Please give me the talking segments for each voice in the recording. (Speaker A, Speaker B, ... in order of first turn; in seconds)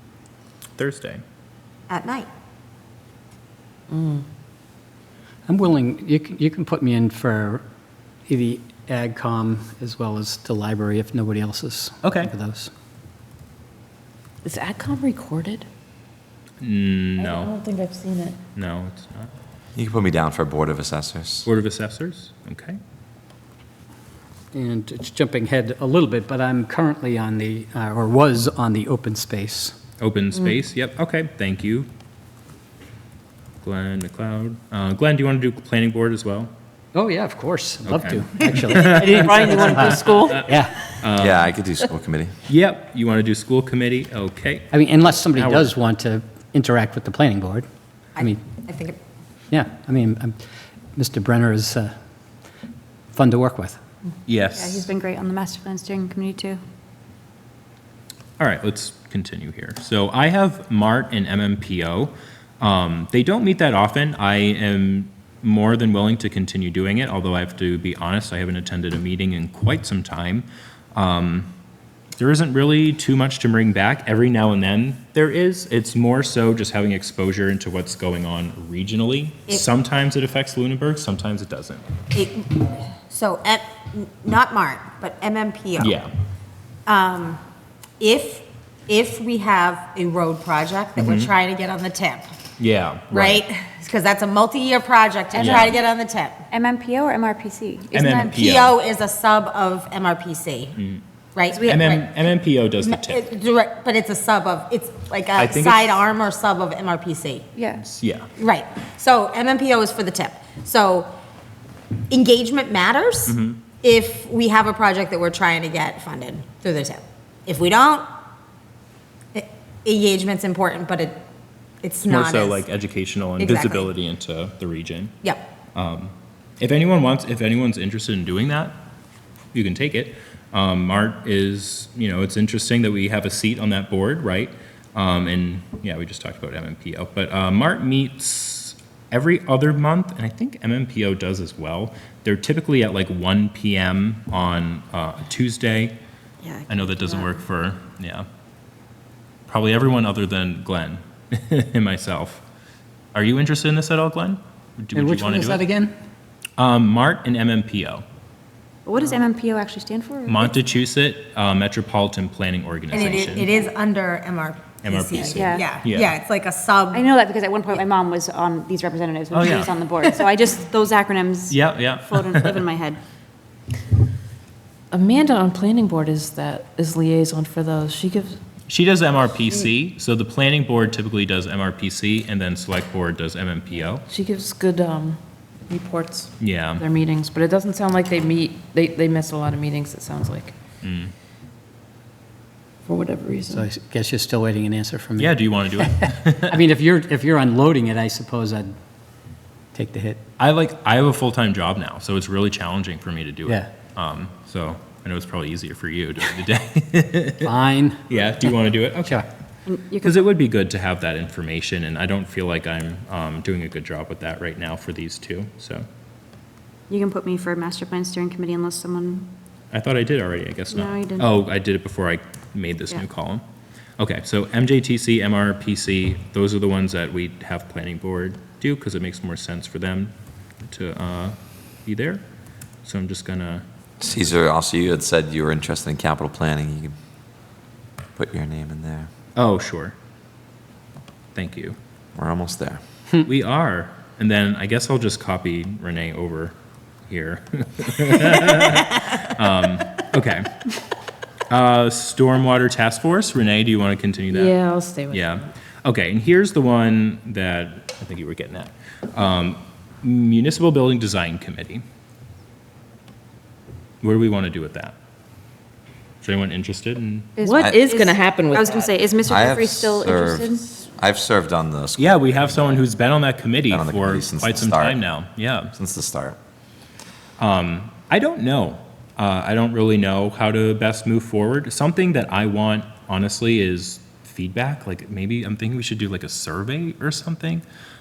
Speaker A: 0.8-1.2, 12.0-12.3, 16.6-17.5, 18.6-19.3, 21.4-22.8, 30.0-31.9, 33.6-36.5, 37.8-41.5, 42.5-44.7, 45.3-45.7, 54.3-54.9, 58.4-71.5, 72.2-81.8, 85.8-86.1, 91.0-91.3, 92.6-93.4, 95.4-95.8, 97.9-98.7, 100.8-101.0, 101.7-103.2, 105.3-106.0, 107.8-108.3, 113.3-113.6, 122.1-125.1, 125.7-128.8, 129.5-145.9, 146.7-148.2, 149.5-152.4, 153.1-155.6, 156.6-158.0, 160.3-163.5, 164.8-166.1, 169.3-169.7, 171.5-172.6, 178.7-184.0, 186.4-186.8, 190.8-191.1, 195.2-196.6, 200.4-207.5, 208.1-209.3, 210.0-215.8, 219.7-223.4, 224.0-230.1, 230.7-232.2, 232.8-233.6, 239.3-239.9, 241.3-241.8, 243.2-246.5, 247.1-250.4, 251.5-254.6, 255.1-261.8, 264.0-264.9, 266.2-267.4, 272.0-275.7, 277.4-287.6
Speaker B: 1.9-2.3, 48.2-49.0, 82.1-86.0, 86.9-87.4, 88.0-92.3, 93.1-96.4, 98.0-100.7, 101.3-102.1, 102.8-107.5, 108.4-111.1, 112.1-118.0, 119.3-121.2, 121.8-122.6, 123.4-123.9, 162.9-167.0
Speaker C: 3.9-4.2, 14.4-15.7, 17.2-18.4, 39.1-40.4, 174.9-178.4, 184.1-190.5, 192.9-193.7, 254.3-255.4, 267.4-269.0
Speaker D: 5.5-7.6, 8.3-12.7, 24.5-29.8, 36.9-40.7, 44.7-47.6, 49.5-50.4, 51.0-51.9, 53.1-53.8, 154.9-155.9, 193.5-198.7, 199.7-200.2, 207.4-208.0
Speaker E: 19.8-21.4, 41.2-42.3, 234.0-236.9, 238.2-239.1, 242.2-242.8, 267.5-267.8, 269.1-272.9, 273.7-275.0, 275.7-276.4
Speaker F: 54.5-56.6, 95.3-95.8, 96.5-98.3, 101.5-101.8, 107.5-107.8, 146.5-147.3, 158.8-160.6, 163.0-163.4, 165.2-165.7, 166.9-173.0, 209.7-210.3, 216.9-219.3, 220.7-221.4, 267.4-270.7